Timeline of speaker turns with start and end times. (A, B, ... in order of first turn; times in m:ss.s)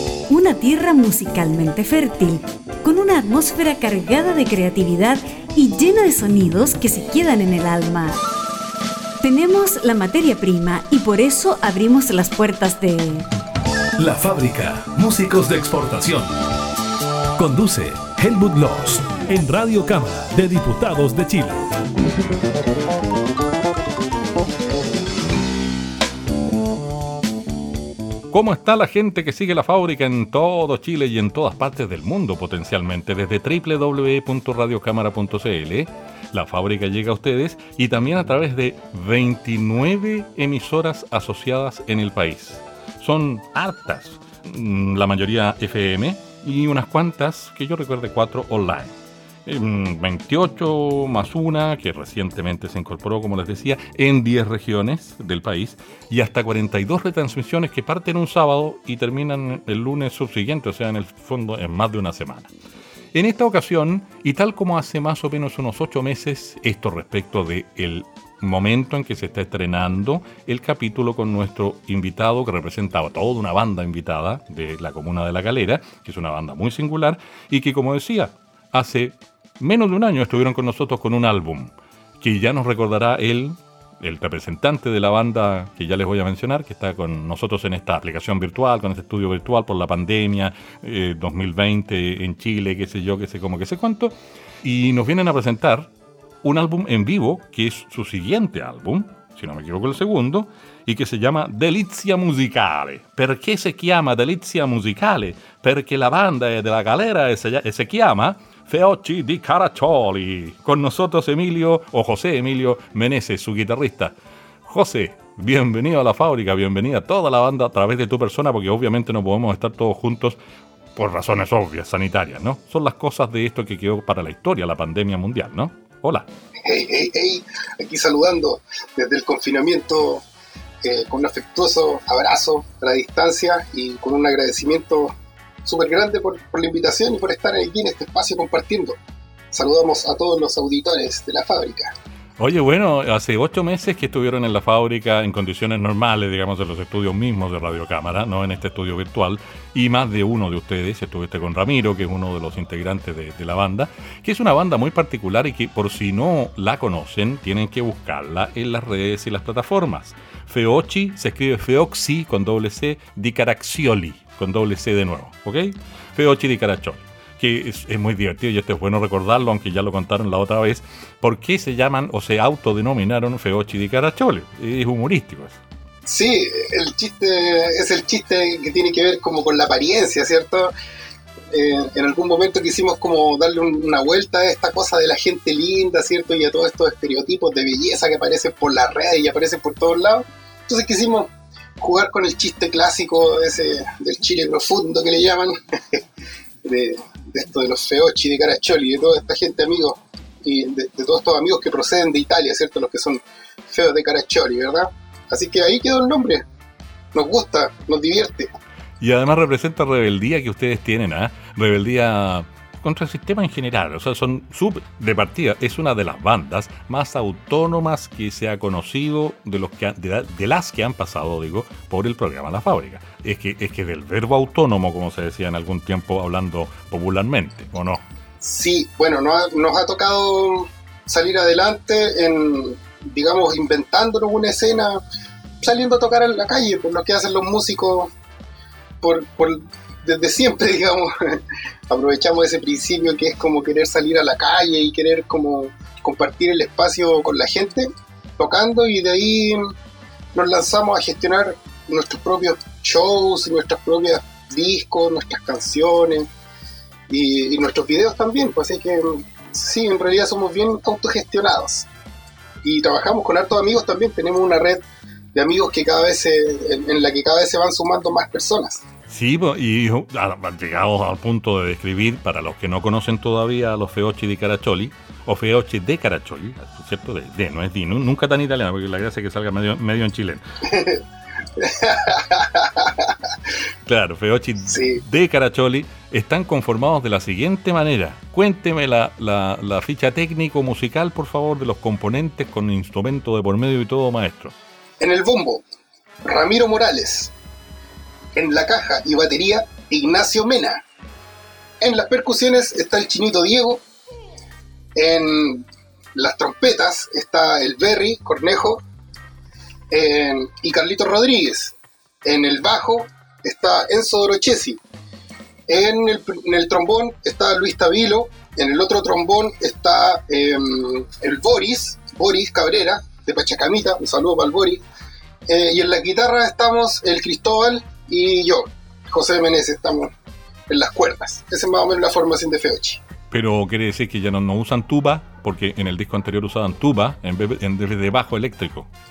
0:00.3-0:08.2 A
0:09.2-0:13.3 A
0:14.0-0:16.3 B
0:17.4-0:21.6 B
0:28.3-0:49.0 C
0:49.5-1:02.5 C
1:03.1-1:35.9 C
1:36.4-1:54.1 C
1:54.7-2:00.4 C
2:01.0-2:06.3 C
2:06.6-2:10.2 D
2:10.8-2:15.1 D
2:15.6-2:19.0 D
2:19.5-2:21.9 D
2:22.4-2:55.6 C
2:56.1-3:00.7 D
3:01.5-3:16.0 D
3:16.6-3:26.4 D
3:27.1-3:28.5 D
3:29.0-3:48.0 C
3:48.4-3:55.0 D
3:55.6-3:58.1 D
3:59.0-4:07.9 D
4:08.4-4:09.7 D
4:10.3-4:16.3 D
4:17.1-4:21.9 D
4:22.6-4:24.8 D
4:25.3-4:28.8 D
4:29.1-4:40.4 C
4:40.7-4:41.0 D
4:41.6-4:43.1 D
4:43.9-4:54.5 C
4:44.7-4:45.0 D
4:55.0-4:55.6 D
4:56.2-4:57.3 D
4:58.4-5:00.8 D
5:01.8-5:03.8 D
5:05.0-5:08.8 D
5:09.9-5:14.8 D
5:15.7-5:24.8 D
5:25.5-5:30.1 D
5:30.7-5:33.0 D
5:33.3-5:38.9 C